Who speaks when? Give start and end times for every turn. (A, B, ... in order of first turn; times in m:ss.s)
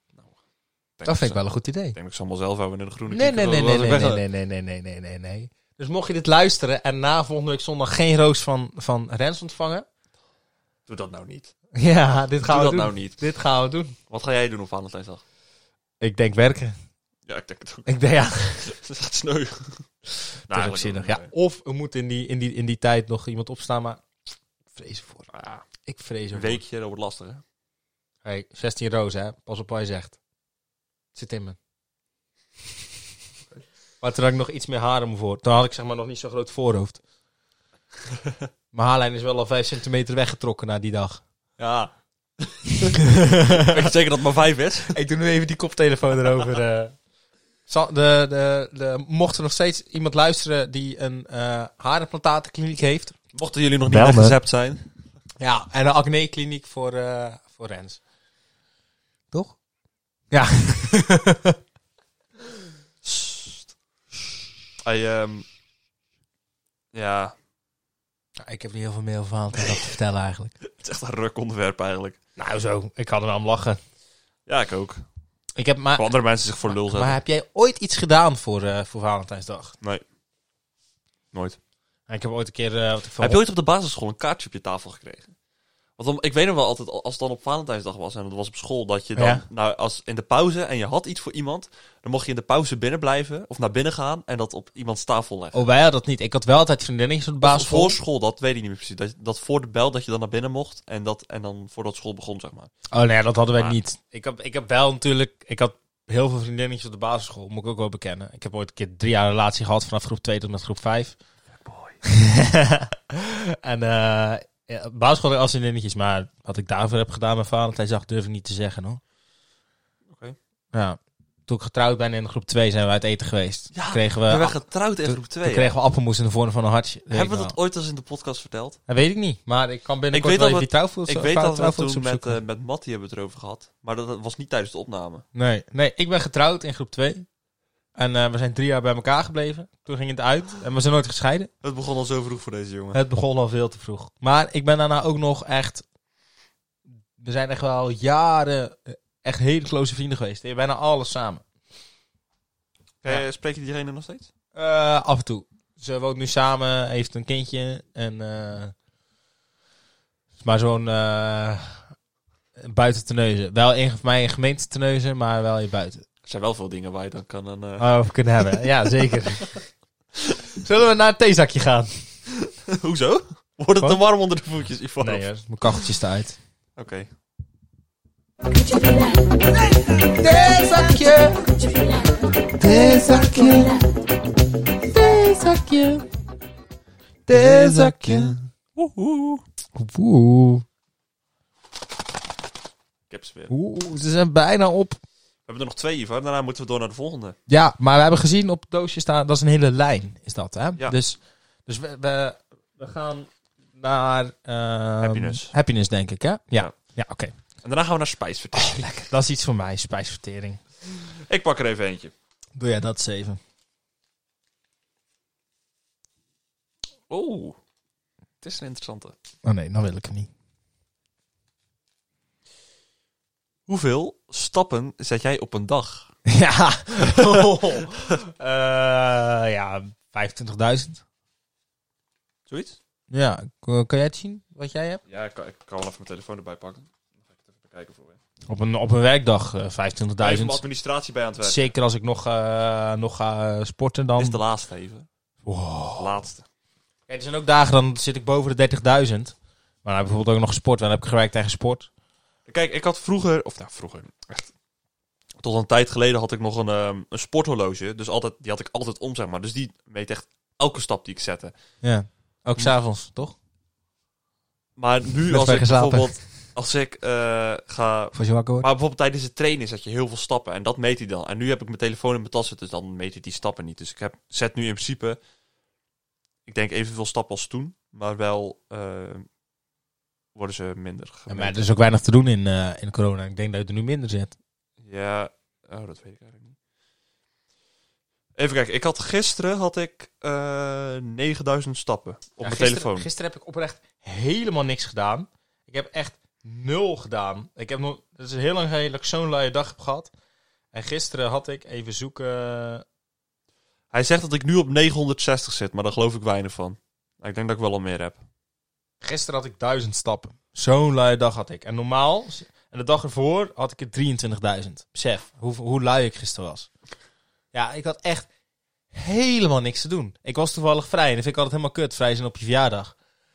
0:01.0-0:04.2 A
0:01.0-0:02.0 B
0:03.1-0:09.8 B
0:10.9-0:11.5 A
0:11.7-0:14.0 B
0:12.4-0:13.2 A
0:14.1-0:15.2 A
0:16.0-0:16.7 B
0:17.3-0:17.9 A
0:17.8-0:18.7 B
0:18.6-0:19.9 A
0:20.5-0:21.3 A
0:20.5-0:24.0 B
0:24.7-0:25.3 B
0:25.3-0:25.6 A
0:25.8-0:26.6 B
0:26.3-0:27.4 A
0:28.2-0:30.2 B
0:31.1-0:31.6 B
0:34.0-0:37.0 B
0:38.7-0:41.2 B
0:41.6-0:41.9 A
0:42.4-0:42.9 A
0:43.0-0:43.7 B
0:43.5-0:44.9 A
0:44.9-0:46.9 B
0:47.7-0:53.2 B
0:53.3-0:54.9 A
0:55.4-0:58.0 B
0:59.3-0:59.6 B
1:00.3-1:01.6 B
1:03.0-1:03.7 A
1:04.8-1:05.4 A
1:06.9-1:07.3 A
1:08.4-1:10.6 B
1:10.6-1:12.2 A
1:12.4-1:13.8 B
1:14.5-1:15.0 A
1:15.6-1:16.1 B
1:16.0-1:17.2 A
1:16.7-1:19.8 B
1:21.3-1:21.6 A
1:22.1-1:23.4 B
1:23.2-1:25.3 A
1:26.0-1:35.6 A
1:29.2-1:29.4 B
1:35.5-1:38.0 B
1:37.4-1:42.7 A
1:42.9-1:51.2 B
1:51.5-1:52.0 A
1:52.0-1:59.0 B
2:00.1-2:00.4 A
2:00.7-2:07.6 B
2:03.7-2:05.7 A
2:07.1-2:08.8 A
2:08.9-2:12.4 B
2:10.1-2:15.2 A
2:15.3-2:17.2 B
2:18.0-2:21.5 B
2:21.6-2:23.0 A
2:22.9-2:25.8 B
2:27.2-2:31.4 B
2:33.0-2:34.3 A
2:34.5-2:38.7 B
2:40.4-2:41.8 B
2:42.6-2:46.0 B
2:46.2-2:48.6 A
2:47.8-2:49.6 B
2:50.6-2:52.0 B
2:52.6-2:55.2 A
2:55.0-2:56.4 B
2:56.8-2:57.1 A
3:00.0-3:01.6 B
3:02.6-3:03.8 B
3:04.9-3:06.0 B
3:07.3-3:08.4 B
3:07.3-3:09.4 A
3:09.7-3:10.6 B
3:13.1-3:13.5 A
3:13.5-3:15.0 B
3:15.4-3:17.4 A
3:17.5-3:27.3 B
3:25.0-3:25.5 A
3:27.6-3:29.1 A
3:28.6-3:30.6 B
3:31.0-3:32.1 A
3:32.6-3:33.4 B
3:37.1-3:37.6 A
3:38.4-3:39.1 A
3:39.4-3:40.3 B
3:43.7-3:46.1 A
3:46.3-3:51.0 B
3:47.0-3:48.1 A
3:52.5-3:52.8 A
3:53.1-3:55.0 B
3:55.1-3:58.2 A
3:58.5-4:00.6 B
4:00.2-4:01.7 A
4:01.4-4:04.4 B
4:04.2-4:05.1 A
4:05.4-4:06.2 B
4:06.0-4:06.4 A
4:07.1-4:11.9 B
4:12.5-4:14.5 A
4:15.4-4:21.5 A
4:21.8-4:23.4 B
4:24.8-4:35.2 A
4:25.3-4:26.3 B
4:28.1-4:28.7 B
4:36.5-4:39.2 A
4:40.3-4:41.6 A
4:41.3-4:44.4 B
4:44.8-4:46.6 A
4:48.4-4:53.1 A
4:52.4-5:00.1 B
5:00.7-5:02.8 B
5:03.9-5:08.2 A
5:09.0-5:16.7 B
5:17.5-5:18.3 B
5:18.9-5:22.9 B